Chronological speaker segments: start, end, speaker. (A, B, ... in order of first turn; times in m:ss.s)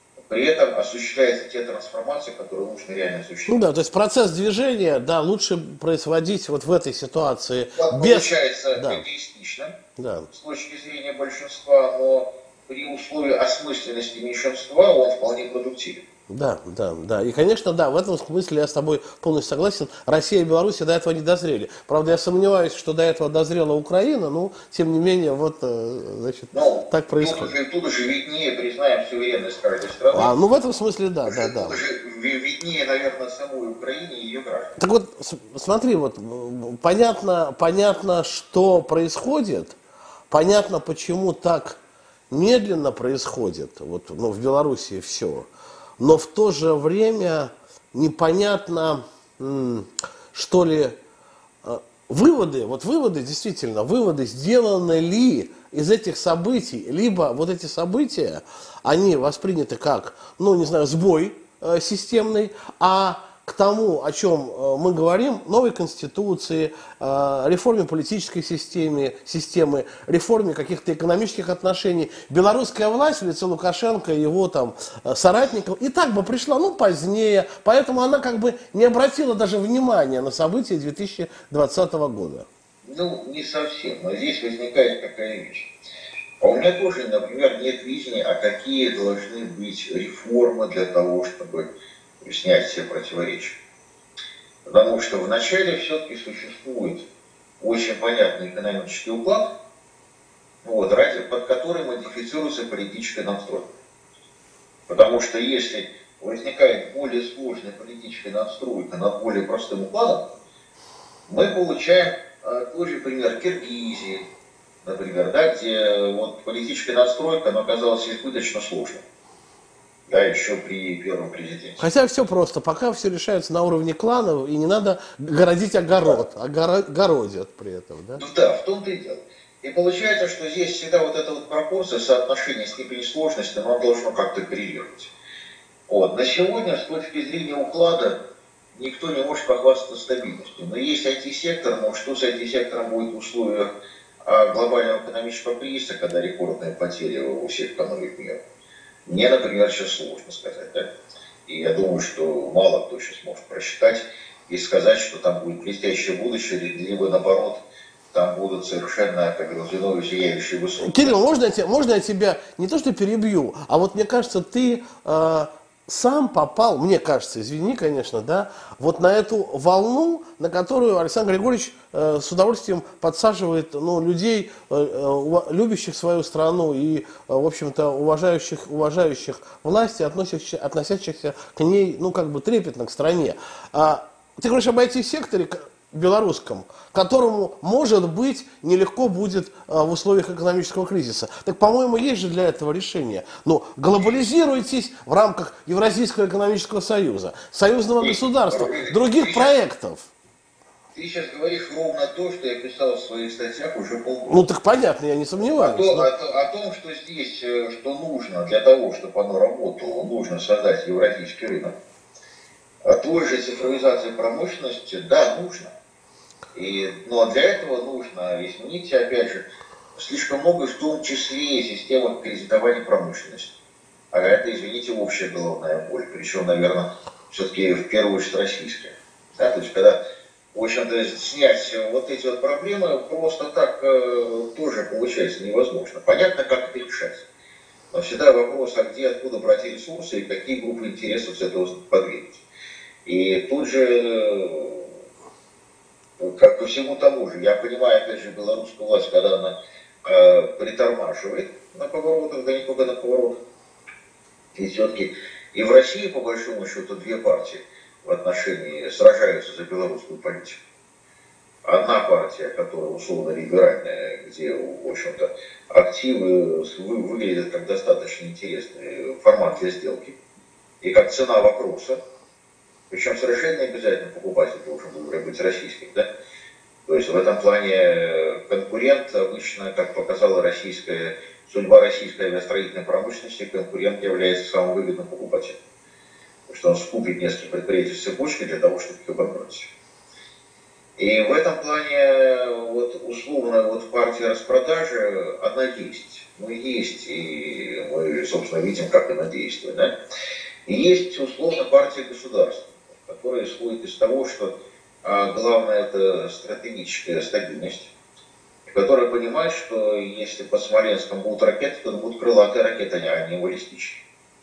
0:00.2-0:03.6 A
0:03.5-0:09.0 B
0:07.8-0:09.7 A
0:10.0-0:10.3 B
0:10.3-0:16.0 A
0:16.3-0:27.5 B
0:26.5-0:30.3 A
0:30.1-0:31.8 B
0:31.2-0:34.7 A
0:34.8-0:39.8 B
0:40.3-0:41.8 B
0:42.3-0:51.0 B
0:51.6-1:22.5 B
1:22.8-1:25.7 A
1:26.4-1:31.7 A
1:32.2-1:33.6 A
1:34.6-1:37.0 A
1:37.6-1:39.5 A
1:40.6-1:43.7 A
1:44.9-1:50.2 A
1:51.3-1:54.2 A
1:54.8-1:59.0 A
2:00.1-2:01.8 A
2:01.8-2:08.2 B
2:08.2-2:15.1 A
2:15.9-2:18.2 A
2:18.7-2:23.7 A
2:24.2-2:28.4 A
2:29.0-2:30.9 A
2:31.4-2:37.6 A
2:38.1-2:41.2 A
2:40.8-3:20.1 B
3:18.0-3:19.6 A
3:20.9-3:24.5 A
3:24.3-3:26.1 B
3:25.6-3:31.7 A
3:32.8-3:35.7 A
3:36.5-3:39.4 A
3:40.0-3:43.5 A
3:44.1-3:50.0 A
3:50.5-3:57.2 A
3:57.9-4:02.4 A
4:03.0-4:05.0 A
4:06.2-4:13.3 A
4:14.5-4:20.6 A
4:21.6-4:30.2 A
4:30.8-4:32.0 A
4:32.9-4:36.1 A
4:36.8-4:45.6 A
4:46.5-4:49.7 A
4:51.0-4:59.9 A
5:00.6-5:04.5 A
5:05.0-5:07.9 A
5:08.7-5:14.0 A